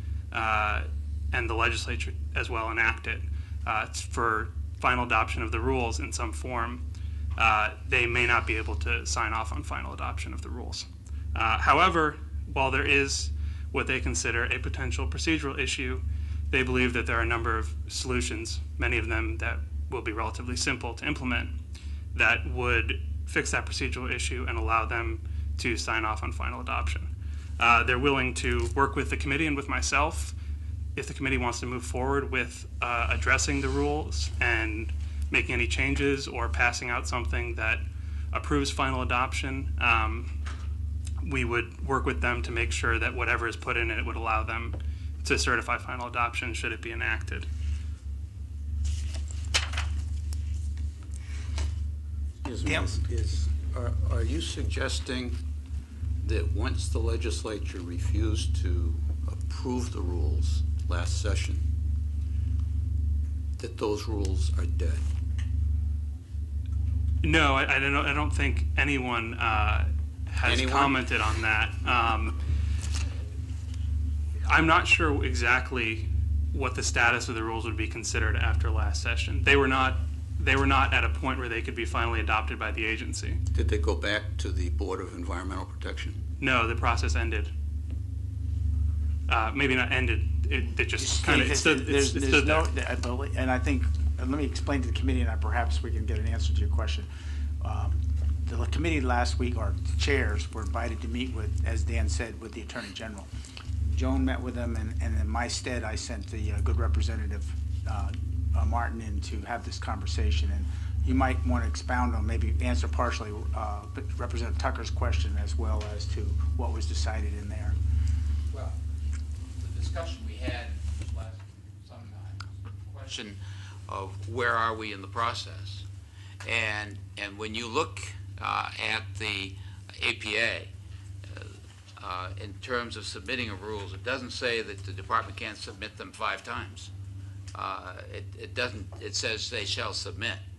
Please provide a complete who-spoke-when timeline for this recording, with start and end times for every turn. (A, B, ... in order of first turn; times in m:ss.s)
0:00.3-0:21.5 A
0:22.1-0:30.4 A
0:31.0-0:40.4 A
0:41.2-0:47.5 A
0:52.4-0:55.4 B
0:52.6-0:53.0 C
0:56.2-1:01.7 B
1:03.6-1:05.1 B
1:07.2-1:12.4 A
1:10.4-1:11.0 B
1:14.4-1:23.4 A
1:23.5-1:26.2 B
1:26.4-1:27.5 A
1:29.3-1:32.7 A
1:31.0-1:37.1 C
1:37.6-1:43.3 C
1:43.8-1:57.8 C
1:58.5-1:58.8 D
1:59.6-2:05.9 D
2:06.4-2:10.7 D
2:11.3-2:16.9 D
2:17.5-2:20.4 D